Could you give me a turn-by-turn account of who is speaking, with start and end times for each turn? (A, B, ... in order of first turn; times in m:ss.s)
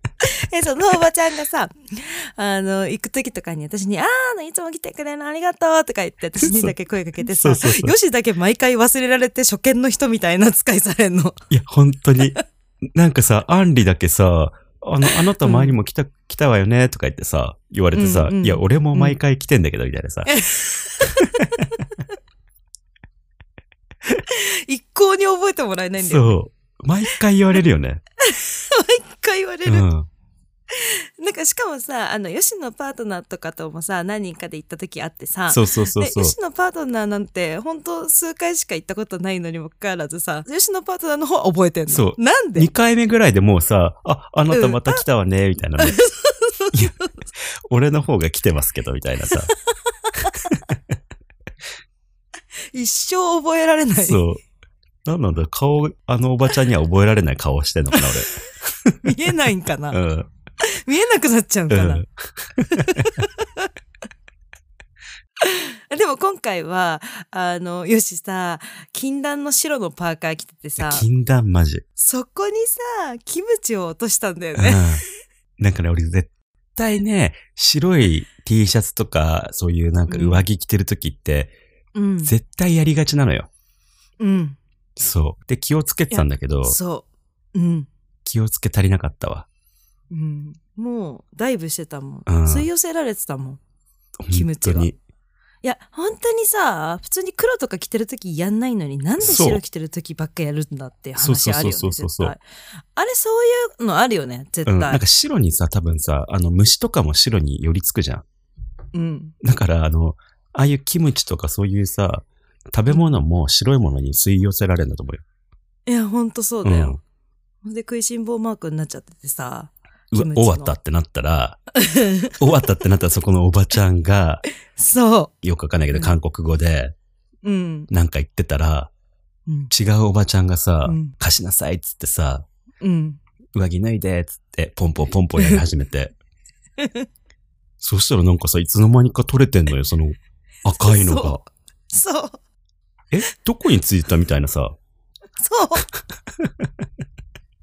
0:00.2-0:11.4 A
0:06.4-0:06.7 B
0:07.3-0:08.0 B
0:11.5-0:20.3 B
0:15.1-0:15.8 A
0:18.0-0:19.2 A
0:20.3-0:21.5 A
0:21.2-0:21.7 B
0:24.3-0:26.4 A
0:26.0-0:28.0 B
0:28.3-0:29.9 A
0:29.7-0:30.1 B
0:30.7-0:42.7 A
0:35.5-0:36.4 B
0:41.9-0:46.0 B
0:44.5-0:45.0 A
0:45.8-0:47.1 A
0:47.7-0:49.5 B
0:49.3-0:50.6 A
0:50.5-0:50.8 B
0:52.7-0:54.2 A
0:54.0-0:54.4 B
0:55.0-0:59.0 B
0:57.9-0:58.5 A
0:59.0-1:00.0 A
0:59.9-1:00.3 B
1:00.6-1:02.0 A
1:01.7-1:03.1 B
1:02.7-1:03.7 A
1:05.4-1:11.1 A
1:10.8-1:11.8 B
1:12.0-1:15.0 A
1:14.6-1:15.0 B
1:15.6-1:21.5 B
1:20.1-1:20.4 A
1:22.0-1:22.4 A
1:22.2-1:23.5 B
1:24.2-1:24.6 A
1:25.0-1:26.8 B
1:26.1-1:27.9 A
1:28.3-1:29.5 B
1:30.1-1:33.6 A
1:32.3-1:32.7 B
1:34.2-1:35.0 B
1:34.3-1:34.9 A
1:35.6-1:42.4 A
1:39.2-1:39.6 B
1:41.2-1:42.4 B
1:42.9-1:45.0 A
1:44.7-1:48.2 B
1:48.9-1:49.4 A
1:49.4-1:55.2 B
1:52.9-1:53.2 A
1:55.9-1:57.0 A
1:56.6-1:57.0 B
1:57.6-2:00.8 A
2:00.1-2:01.6 B
2:01.8-2:02.4 A
2:02.4-2:04.4 B
2:04.8-2:05.3 A
2:05.4-2:06.9 B
2:05.9-2:06.2 A
2:07.4-2:07.9 A
2:07.9-2:08.9 B
2:09.7-2:12.5 B
2:10.8-2:11.2 A
2:12.8-2:13.2 A
2:13.5-2:16.1 B
2:15.4-2:15.6 A
2:16.8-2:17.1 A
2:17.8-2:21.4 B
2:20.7-2:22.4 A
2:23.1-2:24.8 B
2:25.4-2:25.9 A
2:26.4-2:26.7 B